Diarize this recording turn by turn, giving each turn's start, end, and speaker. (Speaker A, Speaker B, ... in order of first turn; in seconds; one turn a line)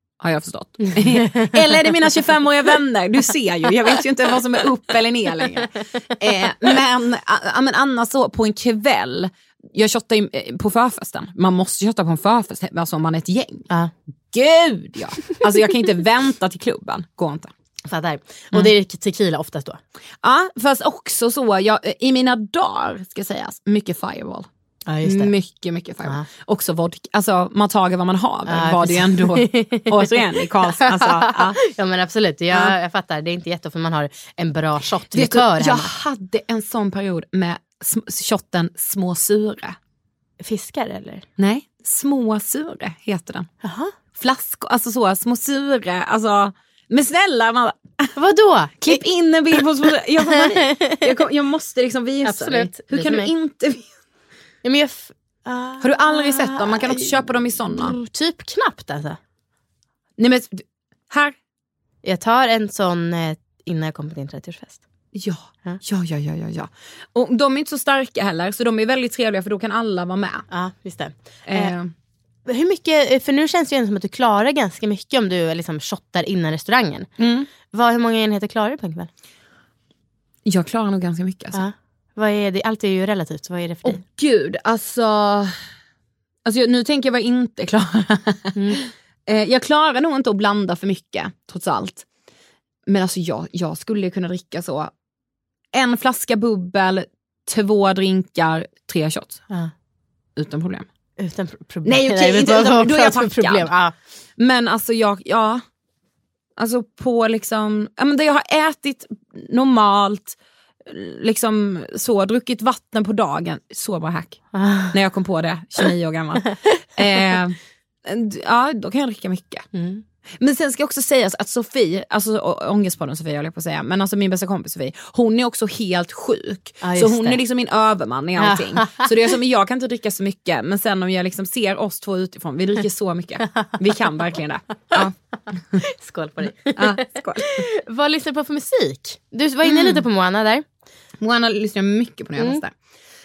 Speaker A: 0.2-13.7
Speaker A: 14.3-17.5
Speaker B: 17.9-19.8
Speaker A: 20.2-24.5
Speaker B: 24.9-25.3
Speaker A: 25.0-31.6
Speaker B: 28.5-29.9
Speaker B: 30.9-35.9
Speaker A: 35.1-39.8
Speaker B: 40.4-41.2
Speaker A: 41.4-43.5
Speaker B: 43.6-43.9
Speaker A: 44.1-48.1
Speaker B: 48.1-49.0
Speaker A: 48.8-53.9
Speaker B: 52.2-53.3
Speaker B: 54.6-57.1
Speaker A: 55.8-57.9
Speaker B: 57.8-59.2
Speaker A: 60.2-61.4
Speaker B: 62.0-64.8
Speaker A: 65.1-70.5
Speaker B: 70.5-71.7
Speaker A: 71.4-71.9
Speaker B: 72.5-77.1
Speaker A: 77.2-77.5
Speaker B: 77.7-79.1
Speaker A: 80.4-81.6
Speaker B: 81.5-84.0
Speaker A: 83.8-85.5
Speaker A: 86.4-92.0
Speaker A: 92.9-94.9
Speaker A: 95.7-99.4
Speaker A: 100.4-100.8
Speaker B: 101.2-103.9
Speaker A: 101.8-103.7
Speaker A: 104.4-105.6
Speaker A: 106.6-114.4
Speaker B: 114.5-114.9
Speaker A: 114.9-119.7
Speaker B: 119.7-120.0
Speaker A: 120.4-135.2
Speaker B: 126.8-127.4
Speaker B: 128.4-128.9
Speaker B: 136.0-136.8
Speaker A: 136.8-137.6
Speaker B: 137.4-140.6
Speaker A: 139.6-140.0
Speaker A: 141.2-142.7